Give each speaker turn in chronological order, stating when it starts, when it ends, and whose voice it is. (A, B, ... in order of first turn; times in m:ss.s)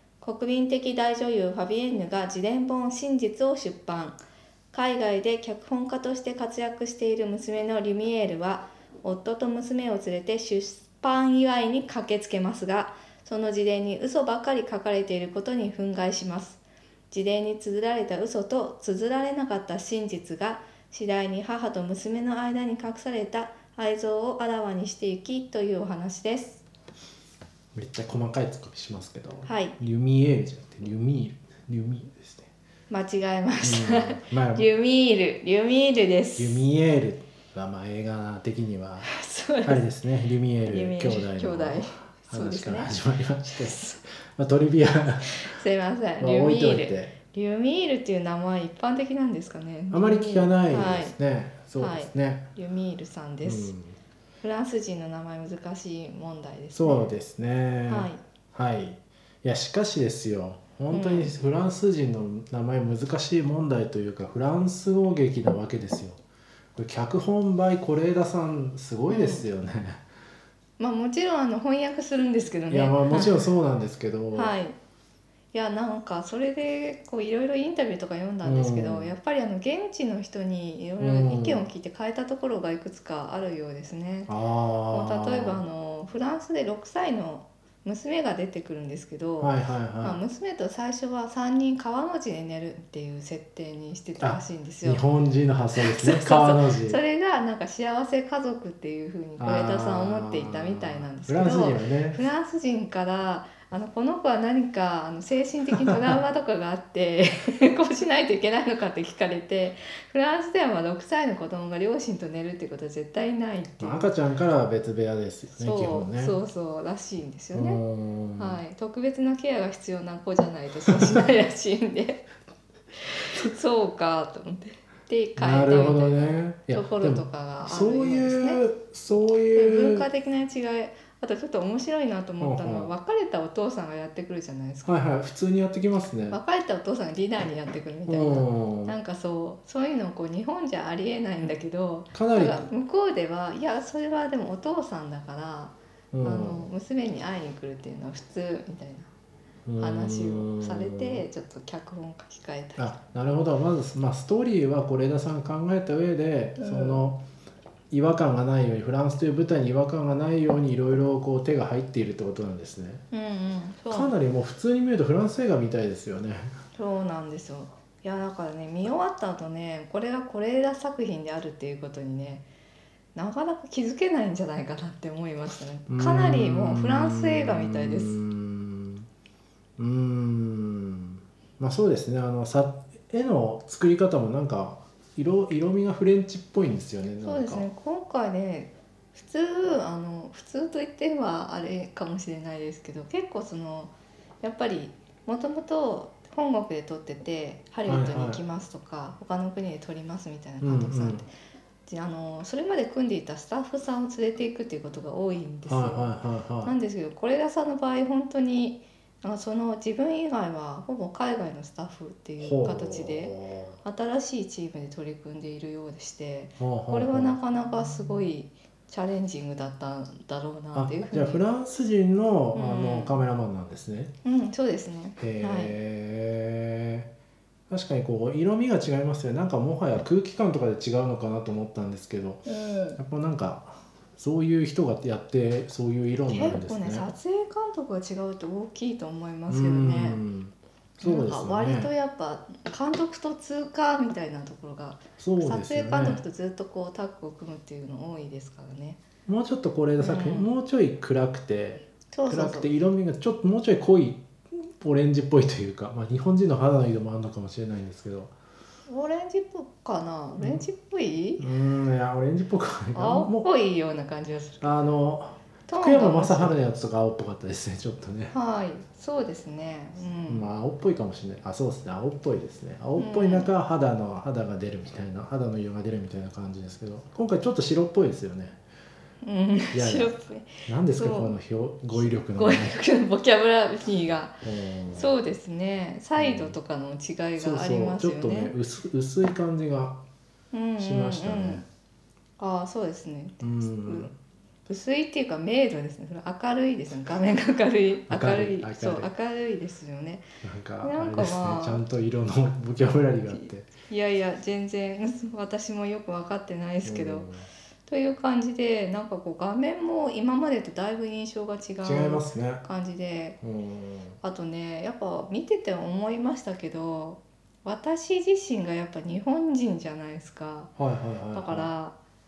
0:00.2-0:04.2 A
0:04.7-0:26.6 A
0:27.7-0:32.5 B
0:29.4-0:29.8 A
0:32.9-0:36.6 A
0:33.6-0:34.6 B
0:36.4-0:39.1 B
0:39.1-0:39.8 A
0:39.6-0:45.5 B
0:40.7-0:44.0 A
0:45.4-0:51.1 A
0:46.2-0:47.1 B
0:49.9-0:52.5 B
0:51.8-0:53.7 A
0:53.4-0:54.0 B
0:54.4-0:57.1 A
0:56.7-1:06.2 B
0:57.9-0:58.2 A
1:00.9-1:01.3 A
1:06.8-1:10.0 B
1:09.1-1:09.4 A
1:10.8-1:13.5 A
1:12.7-1:14.5 B
1:14.3-1:14.8 A
1:15.5-1:24.3 A
1:18.4-1:19.1 B
1:21.0-1:21.6 B
1:24.3-1:25.6 B
1:24.9-1:35.0 A
1:29.4-1:30.2 B
1:34.2-1:37.0 B
1:35.8-1:54.1 A
1:39.4-1:42.2 B
1:53.8-1:56.3 B
1:55.6-1:57.8 A
1:57.5-1:58.6 B
1:58.4-2:02.2 A
2:02.9-2:08.6 A
2:05.4-2:10.1 B
2:09.5-2:15.0 A
2:12.4-2:12.9 B
2:14.8-2:16.4 B
2:16.3-2:29.1 A
2:18.1-2:18.9 B
2:22.1-2:22.7 B
2:26.1-2:26.7 B
2:29.7-2:31.2 B
2:29.8-2:33.0 A
2:32.8-2:37.2 B
2:36.6-2:36.9 A
2:37.9-2:43.0 B
2:43.1-2:44.1 A
2:43.9-2:46.6 B
2:46.7-2:52.4 A
2:53.1-2:58.1 A
2:55.9-2:59.1 B
2:59.8-3:07.6 B
3:07.2-3:21.3 A
3:17.9-3:18.4 B
3:20.6-3:21.2 B
3:21.8-3:26.1 A
3:25.7-3:26.7 B
3:26.6-3:41.4 A
3:32.4-3:33.8 B
3:36.6-3:37.4 B
3:40.7-3:44.1 B
3:42.5-3:43.1 A
3:44.2-3:45.7 A
3:45.2-3:47.1 B
3:47.7-3:57.1 B
3:52.6-3:53.0 A
3:56.3-4:00.2 A
3:59.5-4:01.9 B
4:01.0-4:09.0 A
4:05.2-4:06.2 B
4:09.3-4:18.3 B
4:10.0-4:10.5 A
4:12.1-4:12.7 A
4:18.9-4:21.4 A
4:20.4-4:20.6 B
4:21.4-4:23.5 B
4:22.9-4:24.7 A
4:24.6-4:28.3 B
4:25.7-4:26.6 A
4:28.3-4:30.4 A
4:30.3-4:38.6 B
4:33.0-4:33.5 A
4:39.2-4:41.3 A
4:39.7-4:42.8 B
4:42.0-4:48.5 A
4:44.4-4:45.1 B
4:46.2-4:46.5 B
4:47.4-4:50.0 B
4:50.5-4:51.6 A
4:50.8-4:51.6 B
4:52.4-4:54.1 A
4:53.4-4:54.2 B
4:54.7-5:00.3 A
4:58.1-4:59.1 B
5:00.4-5:03.7 B
5:00.8-5:01.8 A
5:03.8-5:07.3 A
5:06.8-5:07.4 B
5:07.9-5:13.4 A
5:11.8-5:12.6 B
5:13.4-5:14.2 B
5:14.2-5:20.7 A
5:20.8-5:21.7 B
5:21.3-5:21.9 A